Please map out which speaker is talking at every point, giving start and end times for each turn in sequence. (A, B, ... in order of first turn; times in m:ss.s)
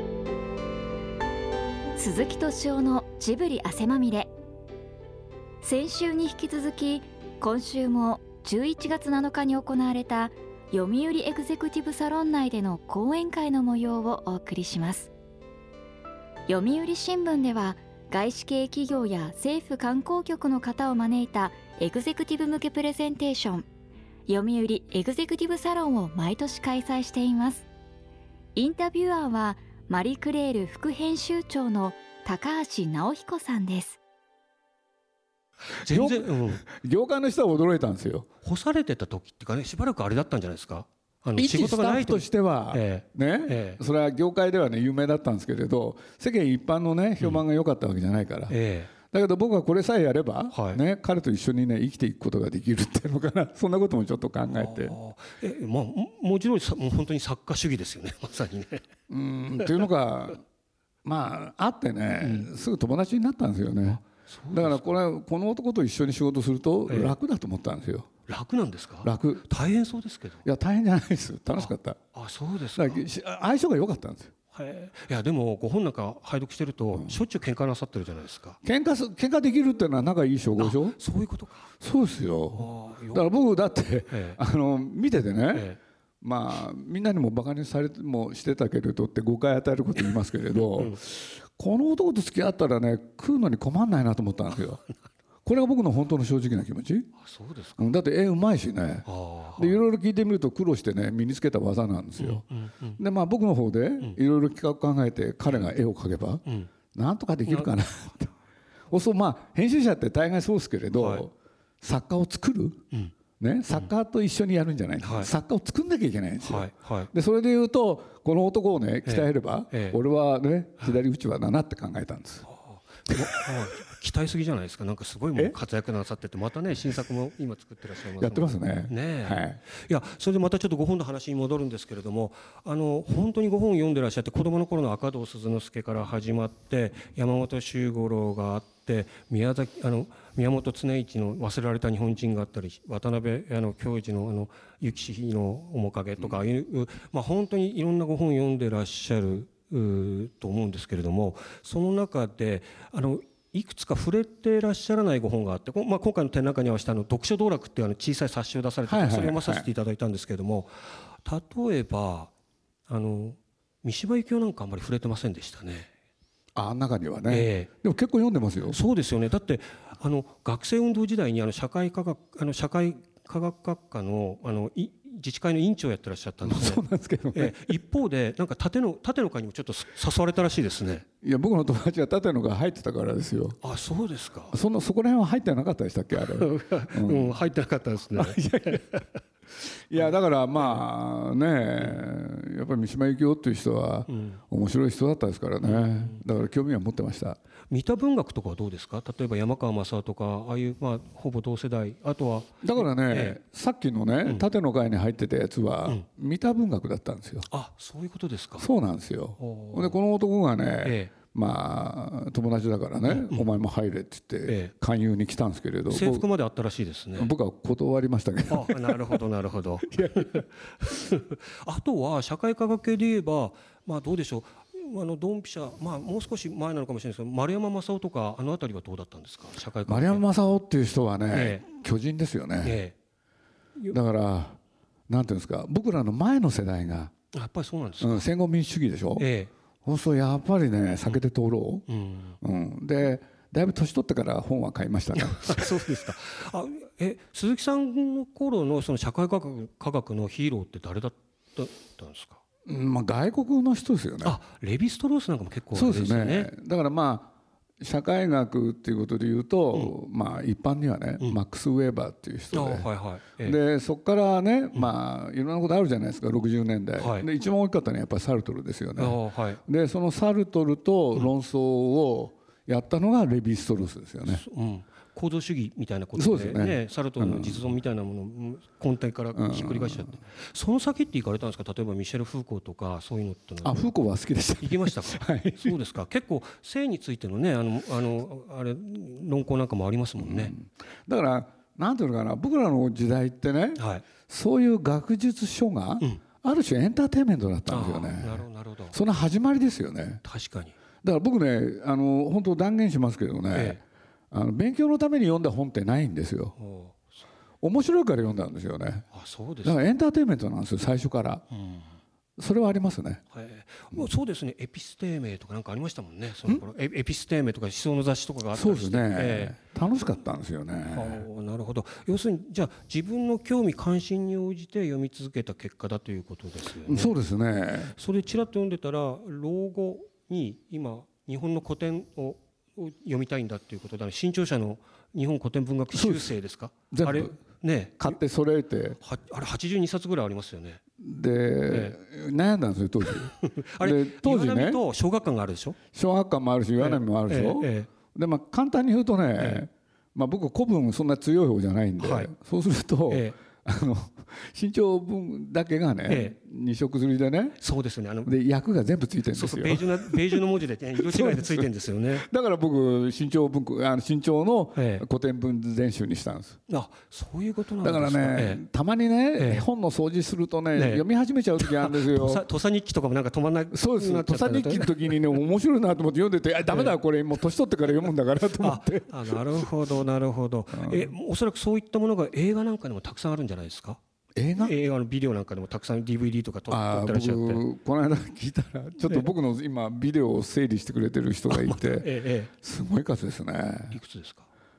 0:02.0-0:04.3 A
0:05.6-0:15.1 A
0:16.5-0:23.6 A
0:24.3-0:27.6 A
0:28.6-0:34.0 A
0:35.7-0:36.6 B
0:35.8-0:38.3 C
0:38.4-0:43.8 B
0:41.4-0:55.0 C
0:48.5-0:48.9 B
0:50.5-0:50.8 B
0:54.4-0:58.8 B
0:59.1-1:00.4 C
1:01.0-1:08.1 C
1:02.2-1:02.5 B
1:03.7-1:04.9 B
1:06.9-1:07.2 B
1:08.3-1:10.4 B
1:09.0-1:09.5 C
1:10.4-1:12.0 C
1:11.5-1:13.0 B
1:12.7-1:14.3 C
1:14.5-1:18.6 B
1:16.9-1:17.2 C
1:18.6-1:21.0 C
1:20.5-1:21.7 B
1:21.8-1:34.8 C
1:22.5-1:23.3 B
1:24.1-1:24.4 B
1:25.5-1:25.8 B
1:30.5-1:31.0 B
1:35.4-1:37.1 C
1:37.2-1:37.9 B
1:37.8-1:42.4 C
1:39.0-1:39.8 B
1:42.2-1:43.0 B
1:43.0-1:48.3 C
1:45.4-1:45.7 B
1:47.4-1:47.7 B
1:48.9-1:52.8 C
1:50.9-1:51.2 B
1:53.4-2:02.4 C
1:55.0-1:55.3 B
1:56.4-1:57.1 B
1:59.0-2:00.0 B
2:02.4-2:42.3 B
2:08.2-2:09.6 C
2:38.8-2:39.7 C
2:42.9-2:45.9 B
2:46.5-2:48.8 C
2:47.3-2:47.7 B
2:48.6-2:56.8 B
2:56.4-2:57.8 C
2:57.3-3:01.0 B
3:01.2-3:03.6 C
3:03.6-3:04.6 B
3:04.5-3:07.4 C
3:06.1-3:09.2 B
3:08.1-3:08.8 C
3:09.9-3:17.4 C
3:09.9-3:10.8 B
3:11.8-3:12.0 B
3:14.1-3:14.4 B
3:15.6-3:16.2 B
3:17.7-3:23.4 B
3:22.6-3:27.5 C
3:24.2-3:24.5 B
3:27.5-3:28.7 B
3:28.6-3:36.3 C
3:29.4-3:30.0 B
3:30.8-3:31.1 B
3:33.0-3:33.5 B
3:34.4-3:34.7 B
3:35.9-3:37.3 B
3:37.2-3:39.2 C
3:38.5-3:50.2 B
3:39.8-3:40.5 C
3:49.8-3:52.8 C
3:51.3-3:51.6 B
3:52.6-3:52.9 B
3:53.9-3:57.1 C
3:57.3-3:58.3 B
3:58.0-3:59.3 C
3:59.2-3:59.5 B
3:59.8-4:01.8 C
4:01.9-4:02.4 B
4:02.4-4:05.9 C
4:05.2-4:12.4 B
4:12.6-4:14.4 C
4:14.2-4:16.5 B
4:15.7-4:34.4 C
4:22.5-4:23.6 B
4:27.0-4:27.3 B
4:29.0-4:29.6 B
4:34.2-4:43.8 B
4:36.1-4:37.7 C
4:39.3-4:40.2 C
4:43.6-4:45.8 C
4:44.6-4:50.5 B
4:50.2-5:00.2 C
4:53.8-4:54.0 B
4:57.7-4:59.0 B
5:00.2-5:00.7 B
5:01.0-5:06.6 C
5:03.5-5:03.8 B
5:06.6-5:07.2 B
5:07.6-5:09.1 C
5:09.1-5:09.8 B
5:09.6-5:11.4 C
5:11.5-5:11.9 B
5:12.4-5:13.2 C
5:13.3-5:19.6 B
5:18.5-5:21.2 C
5:20.9-5:27.1 B
5:26.8-5:27.9 C
5:27.8-5:38.2 B
5:35.9-5:36.3 C
5:36.9-5:37.4 C
5:38.0-5:39.0 C
5:39.0-5:40.8 B
5:41.0-5:44.8 C
5:41.7-5:42.0 B
5:43.0-5:45.8 B
5:45.9-5:57.6 C
5:46.8-5:47.9 B
5:49.4-5:49.6 B
5:52.0-5:52.3 B
5:53.1-5:53.4 B
5:56.1-5:56.4 B
5:57.6-5:58.3 B
5:58.2-6:06.6 C
5:59.3-6:02.3 B
6:04.7-6:05.0 B
6:06.7-6:08.6 B
6:07.8-6:12.4 C
6:09.4-6:09.6 B
6:10.7-6:11.0 B
6:11.6-6:15.4 B
6:13.7-6:19.7 C
6:16.7-6:17.0 B
6:18.6-6:24.0 B
6:20.7-6:21.1 C
6:24.4-6:24.7 C
6:24.6-6:27.6 B
6:26.7-6:32.1 C
6:31.5-6:32.5 B
6:32.6-6:34.0 C
6:33.9-6:34.5 B